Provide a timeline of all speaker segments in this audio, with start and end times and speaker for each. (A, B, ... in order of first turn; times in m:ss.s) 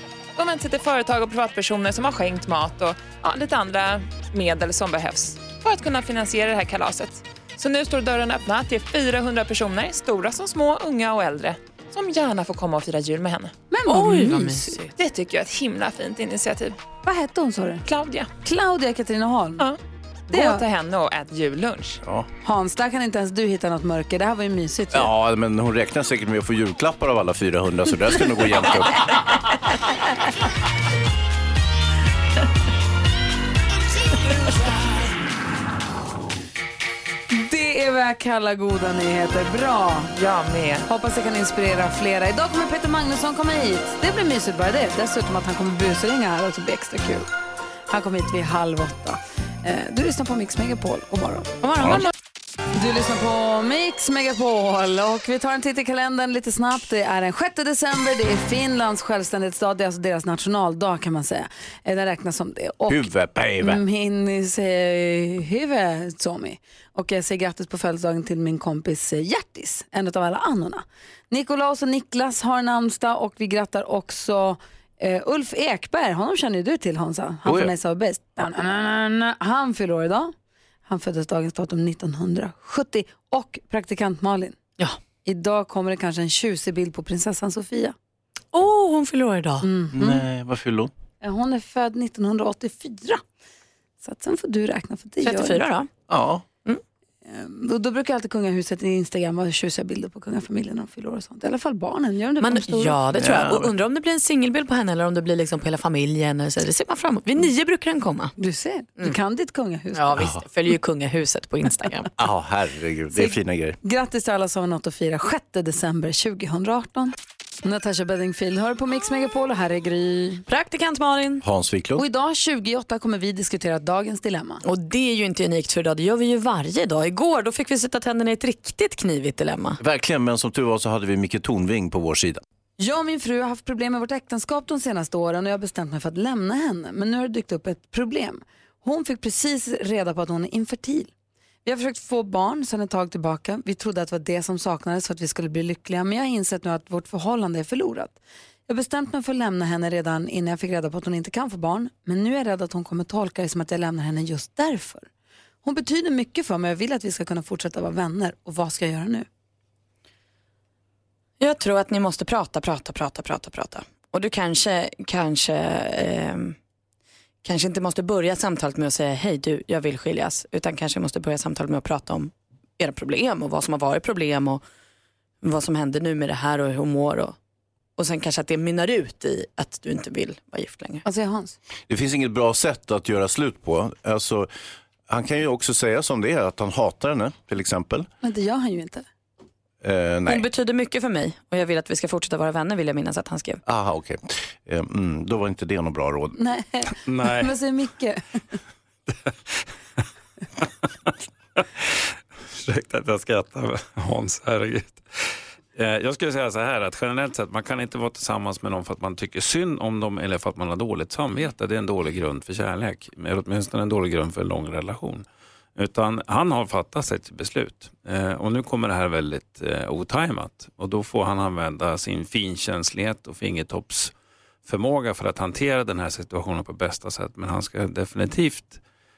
0:00.4-0:13.6 A
0:13.7-0:14.6 B
0:13.9-0:14.9 C
0:14.9-0:16.8 A
0:17.0-0:17.8 B
0:17.8-0:18.3 A
0:18.4-0:19.6 B
0:20.3-0:20.6 B
0:20.3-0:22.0 A
0:22.0-0:22.3 D
0:22.4-0:25.1 B
0:24.9-0:29.1 D
0:37.3-0:40.1 B
0:40.1-0:40.8 A
0:40.8-0:47.3 B
0:47.9-0:51.5 B
0:51.6-0:52.1 C
0:52.7-1:03.1 B
1:02.9-1:03.8 D
1:03.6-1:20.3 B
1:17.4-1:17.7 D
1:20.9-1:24.6 B
1:25.2-1:27.9 B
1:28.5-1:29.7 C
1:29.6-1:30.2 B
1:29.9-1:30.9 D
1:31.2-1:33.2 B
1:34.0-1:35.6 B
1:35.2-1:35.9 C
1:36.1-1:36.4 D
1:37.2-1:43.0 B
1:42.4-1:48.3 C
1:43.1-1:43.7 D
1:48.4-1:50.1 B
1:49.9-1:52.1 C
1:50.2-1:50.4 D
1:52.2-1:53.8 D
1:53.1-2:00.4 B
2:00.5-2:01.4 C
2:01.4-2:02.0 D
2:02.0-2:04.6 B
2:04.6-2:09.8 C
2:09.8-2:12.4 D
2:12.8-2:21.1 B
2:21.6-2:35.1 B
2:35.6-2:39.3 B
2:41.4-2:46.6 C
2:47.4-2:54.6 C
2:55.4-2:57.4 C
2:58.0-3:01.0 C
3:01.0-3:01.6 B
3:01.9-3:04.5 D
3:05.1-3:08.1 D
3:08.2-3:09.1 B
3:09.8-3:10.4 D
3:10.2-3:13.6 C
3:13.6-3:16.4 D
3:16.4-3:18.4 B
3:17.0-3:17.5 E
3:20.6-3:25.0 E
3:25.7-3:35.2 E
3:35.8-3:44.1 E
3:44.6-3:48.8 E